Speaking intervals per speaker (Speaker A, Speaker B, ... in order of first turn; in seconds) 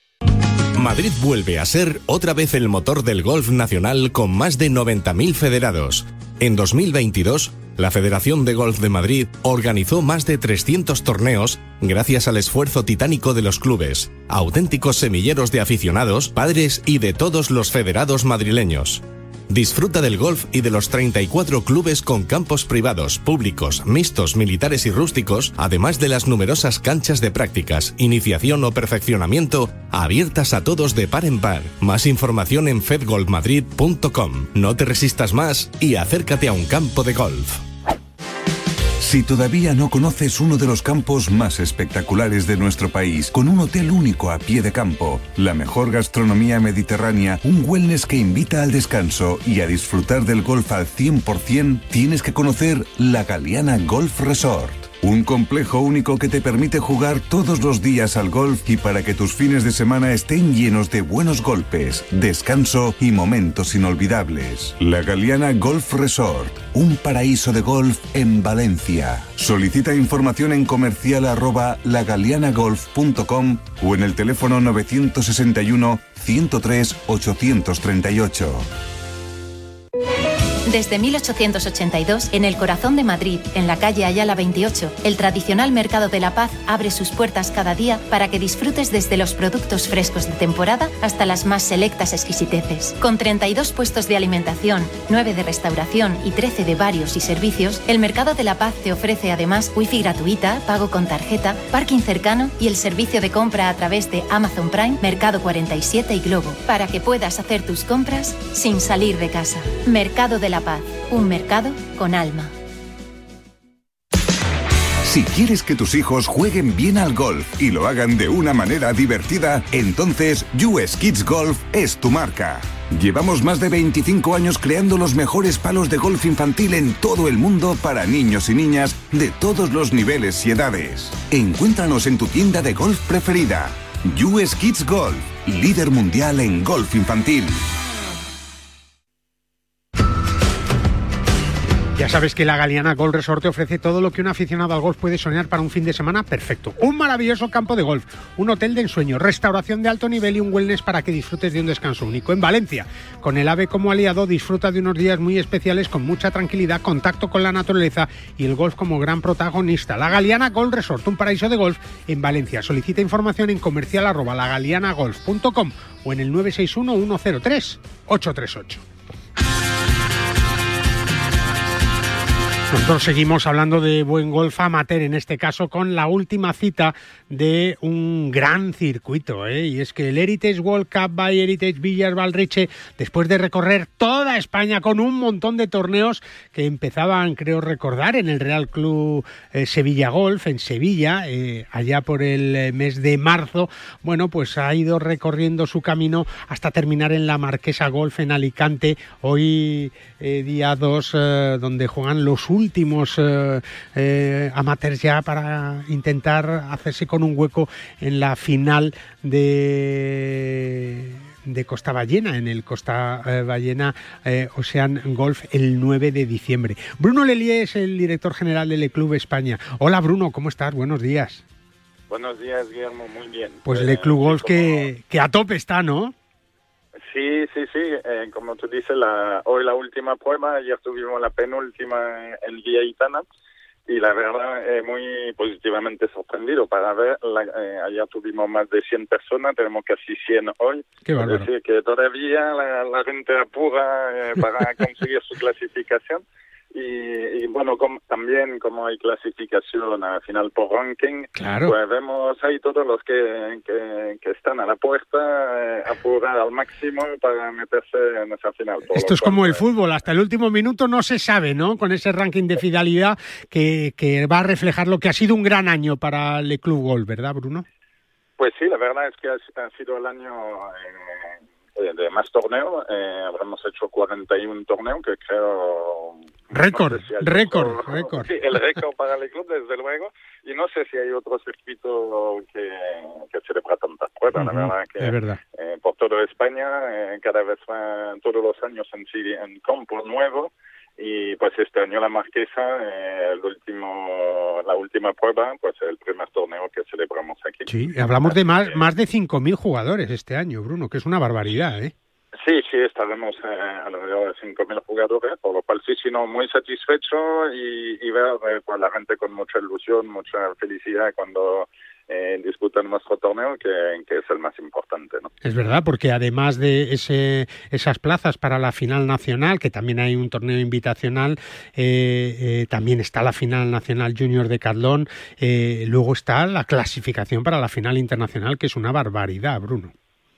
Speaker A: 0.8-37.6
Speaker B: 39.0-78.7, 115.0-137.6
Speaker C: 80.7-112.5
Speaker D: 142.0-168.8, 172.7-221.4, 223.7-226.1, 241.1-241.5, 251.4-251.7, 258.9-267.6, 276.5-278.3, 284.4-285.4, 297.7-301.9, 315.4-329.9
Speaker E: 222.1-224.9, 227.1-233.2, 233.9-246.2, 246.7-259.6, 268.4-297.7, 298.2-298.8, 302.4-315.3